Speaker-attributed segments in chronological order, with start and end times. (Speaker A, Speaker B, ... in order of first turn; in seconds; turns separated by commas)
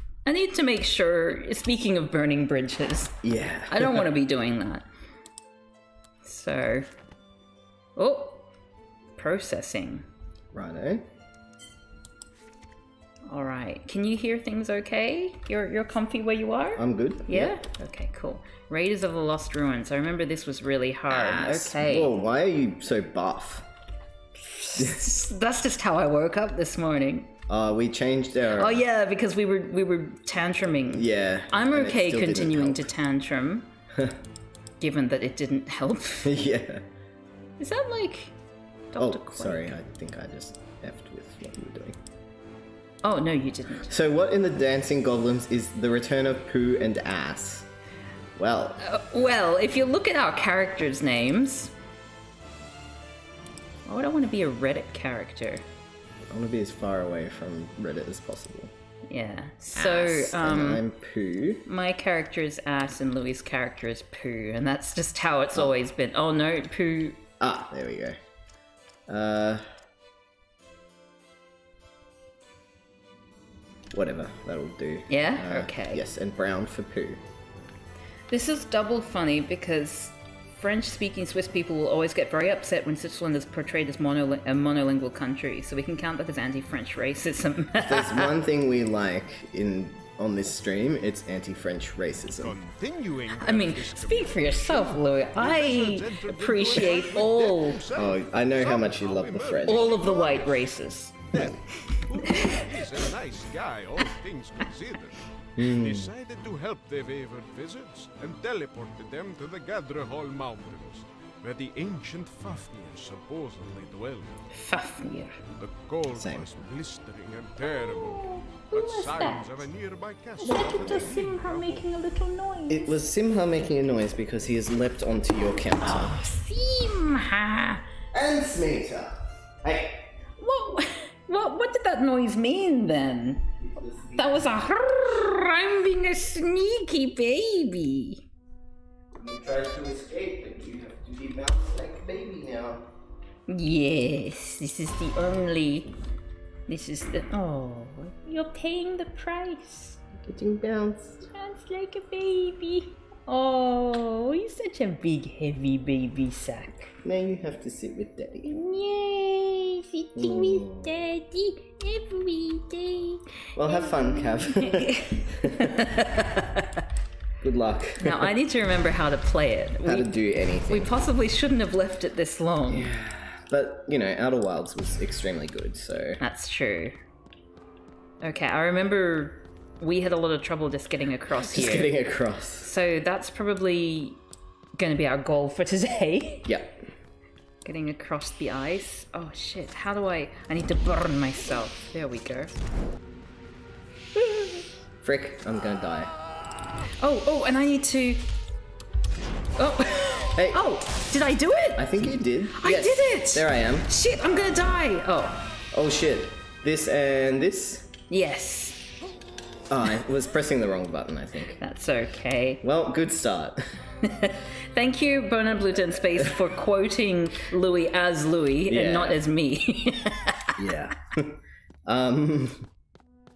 Speaker A: 0.2-4.8, Speaker B: 3.2-4.1, Speaker A: 6.2-6.9, Speaker A: 8.0-8.5, Speaker A: 9.2-10.0, Speaker B: 10.5-11.0, Speaker A: 13.3-22.1, Speaker B: 16.8-17.6, Speaker B: 21.1-23.6, Speaker A: 24.5-27.3, Speaker B: 27.5-28.8, Speaker A: 28.6-33.7, Speaker B: 30.8-32.9, Speaker A: 34.8-36.3, Speaker B: 36.2-36.9, Speaker A: 37.6-38.3, Speaker A: 38.9-39.7, Speaker B: 39.0-42.0, Speaker A: 43.0-43.9, Speaker B: 43.9-47.7, Speaker B: 48.4-48.8, Speaker A: 48.8-51.7, Speaker A: 53.9-55.6, Speaker B: 56.3-58.7, Speaker A: 59.1-60.8, Speaker B: 59.7-61.6, Speaker A: 61.6-67.2, Speaker B: 67.4-68.2, Speaker B: 69.1-69.7, Speaker B: 73.9-77.2, Speaker A: 75.1-76.0, Speaker A: 78.3-88.3, Speaker B: 87.7-92.6, Speaker C: 92.4-114.5, Speaker A: 93.4-97.8, Speaker B: 97.9-99.9, Speaker A: 99.7-101.2, Speaker B: 101.3-101.6, Speaker A: 102.3-102.6, Speaker B: 105.6-106.1, Speaker A: 114.5-115.4, Speaker C: 115.5-121.8, Speaker B: 116.1-116.5, Speaker A: 117.6-119.7, Speaker A: 120.4-123.0, Speaker B: 120.6-121.2, Speaker B: 122.7-126.2, Speaker A: 125.8-127.8, Speaker B: 128.1-130.1, Speaker A: 130.4-133.5, Speaker B: 133.6-134.6, Speaker A: 134.1-138.2, Speaker B: 139.2-142.9, Speaker A: 143.5-145.9, Speaker A: 146.7-150.0, Speaker B: 150.2-151.2, Speaker A: 151.2-156.9, Speaker B: 157.0-158.5, Speaker A: 158.4-166.8, Speaker B: 160.1-160.9, Speaker B: 163.5-165.8, Speaker B: 167.4-168.3, Speaker A: 168.0-170.1, Speaker B: 169.8-170.9, Speaker A: 170.7-172.9, Speaker B: 172.7-176.2, Speaker A: 176.2-176.9, Speaker A: 178.2-181.9, Speaker B: 181.4-182.7, Speaker A: 182.6-184.2, Speaker A: 184.8-186.5, Speaker B: 186.4-186.8, Speaker A: 187.6-192.5, Speaker A: 194.2-194.5, Speaker B: 195.0-196.1, Speaker A: 197.0-198.3, Speaker A: 199.6-201.8, Speaker B: 200.3-200.6, Speaker B: 201.8-203.9, Speaker A: 202.5-205.4, Speaker B: 205.7-207.9, Speaker A: 208.1-208.8, Speaker B: 209.7-211.6, Speaker A: 211.6-212.6, Speaker B: 212.6-213.6, Speaker A: 214.0-220.7, Speaker B: 215.8-216.3, Speaker B: 218.7-219.2, Speaker B: 220.6-222.7